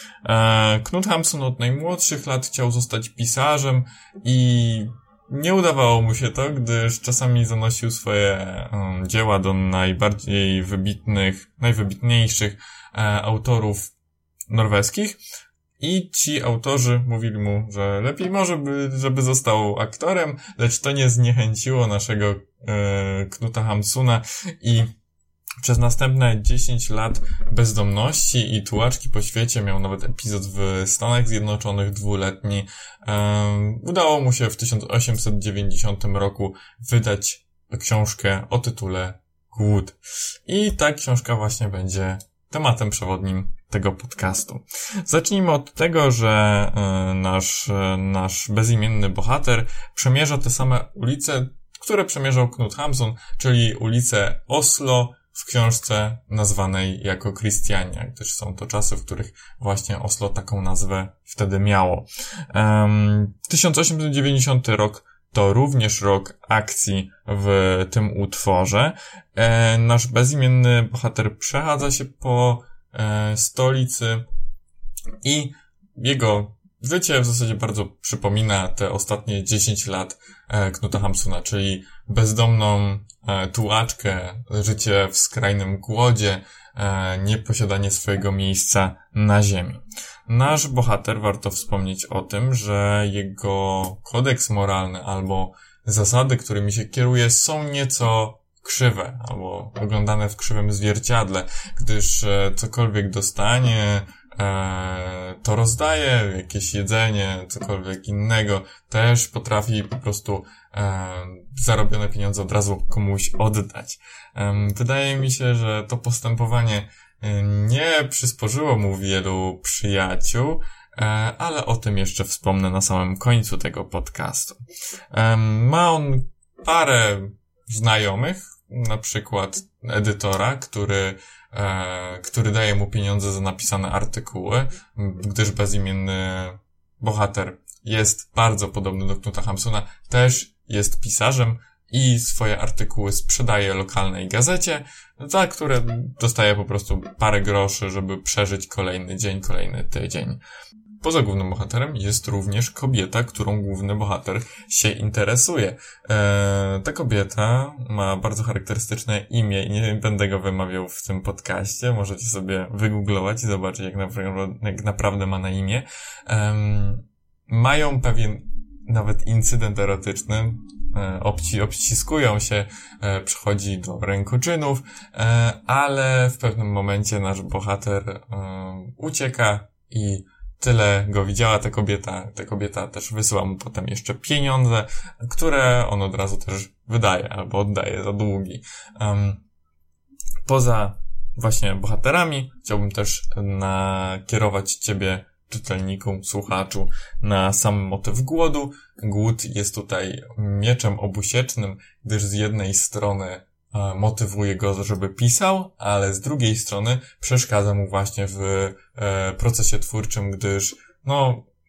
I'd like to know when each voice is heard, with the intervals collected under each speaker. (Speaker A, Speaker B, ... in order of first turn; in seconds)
Speaker A: 0.2-13.9, 14.5-15.2, 15.8-24.9, 25.6-74.2, 75.2-124.6, 125.1-150.4, 151.0-189.4, 190.5-211.4